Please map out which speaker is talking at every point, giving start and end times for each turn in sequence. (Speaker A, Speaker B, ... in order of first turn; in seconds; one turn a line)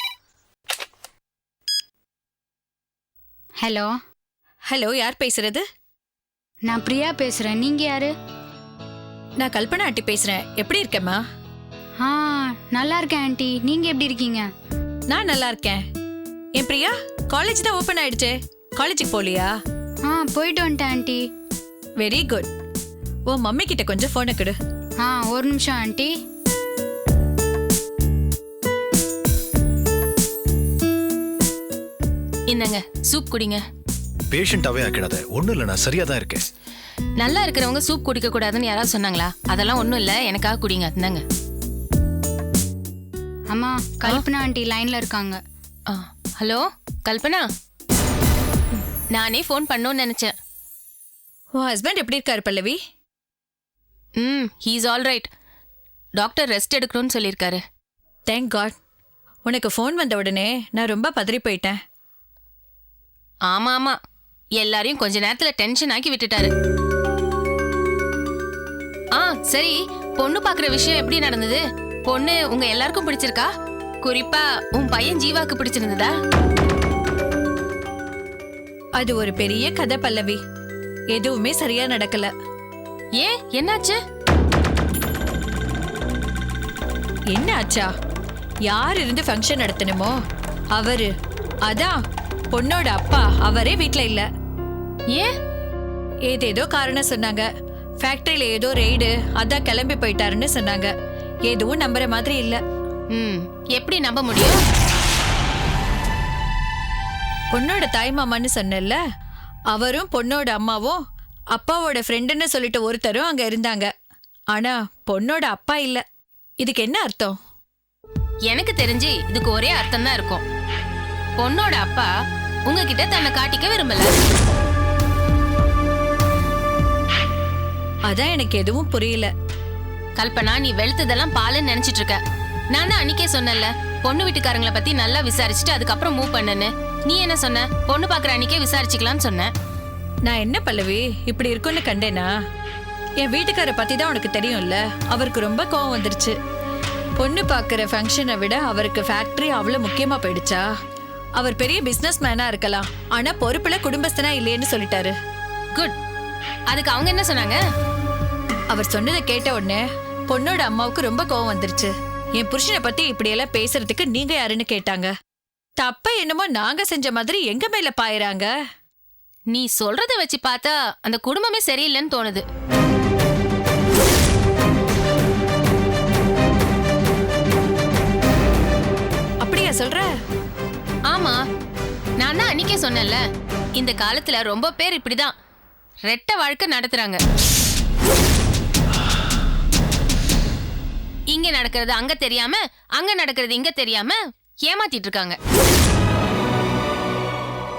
Speaker A: 3.6-3.9
Speaker B: 4.7-5.6
Speaker A: 6.7-8.1
Speaker B: 9.4-11.2
Speaker A: 12.8-14.5
Speaker B: 15.1-15.8
Speaker B: 16.6-19.5
Speaker A: 20.1-21.2
Speaker B: 22.0-22.5
Speaker B: 23.3-24.6
Speaker A: 25.0-26.1
Speaker C: 32.5-33.6
Speaker D: 34.3-36.5
Speaker C: 37.2-41.2
Speaker A: 43.5-45.4
Speaker C: 45.9-47.5
Speaker C: 49.1-50.3
Speaker B: 51.6-52.8
Speaker C: 54.2-55.3
Speaker C: 56.2-57.6
Speaker B: 58.3-58.7
Speaker B: 59.5-61.8
Speaker C: 63.5-64.0
Speaker C: 64.6-66.5
Speaker C: 69.2-73.5
Speaker C: 74.0-76.1
Speaker B: 79.0-80.4
Speaker B: 81.2-82.3
Speaker C: 83.2-84.0
Speaker B: 87.3-87.9
Speaker B: 88.7-90.1
Speaker B: 90.8-91.1
Speaker B: 91.7-91.9
Speaker B: 92.5-94.2
Speaker B: 96.3-97.4
Speaker B: 98.0-100.9
Speaker B: 101.5-102.6
Speaker C: 103.1-104.6
Speaker B: 107.5-109.0
Speaker B: 109.7-111.0
Speaker B: 111.6-113.9
Speaker B: 114.5-116.0
Speaker B: 116.6-117.3
Speaker C: 118.5-120.4
Speaker C: 121.4-122.1
Speaker C: 122.7-124.1
Speaker B: 128.1-129.3
Speaker C: 130.2-132.2
Speaker C: 132.7-139.5
Speaker B: 140.3-142.3
Speaker B: 143.2-146.3
Speaker B: 147.2-150.6
Speaker B: 151.4-155.1
Speaker C: 156.7-157.6
Speaker B: 158.7-165.1
Speaker B: 165.8-168.5
Speaker C: 169.5-172.4
Speaker B: 179.4-180.1
Speaker C: 181.1-181.4
Speaker C: 182.2-183.2
Speaker C: 183.8-185.3
Speaker C: 186.1-187.2
Speaker C: 191.3-195.4